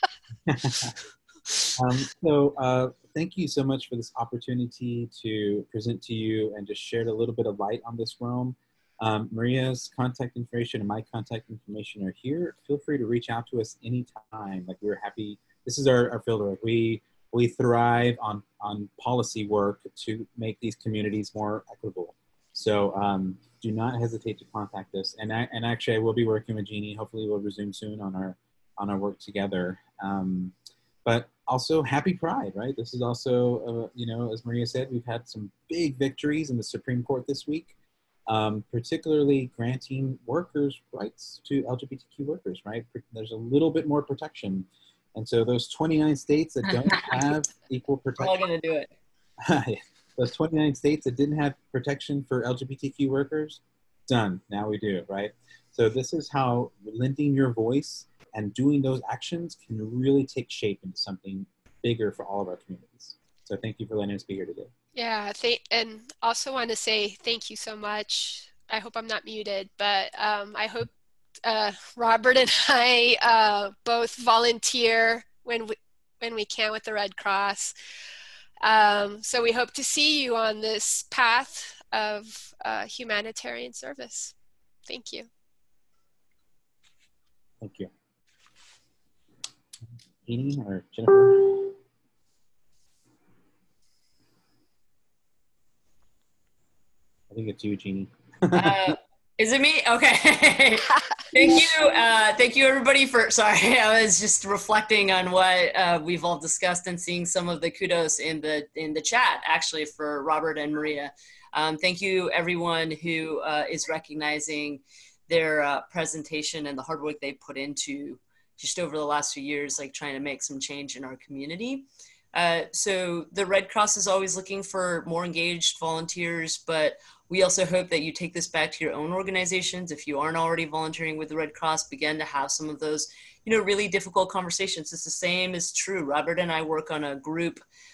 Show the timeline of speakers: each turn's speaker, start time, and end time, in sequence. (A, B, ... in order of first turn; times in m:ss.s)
0:00.5-0:00.9 A
0:01.8-0:30.5 A
0:31.0-0:37.8 A
0:38.3-0:48.4 A
0:46.8-0:47.2 B
0:48.2-0:48.9 B
0:49.4-1:04.7 A
1:05.0-1:10.9 C
1:11.4-1:17.8 C
1:18.6-1:24.3 C
1:24.9-1:25.3 C
1:27.6-1:27.9 A
1:30.2-1:31.8 A
1:37.3-1:39.0 A
1:38.5-2:17.6 B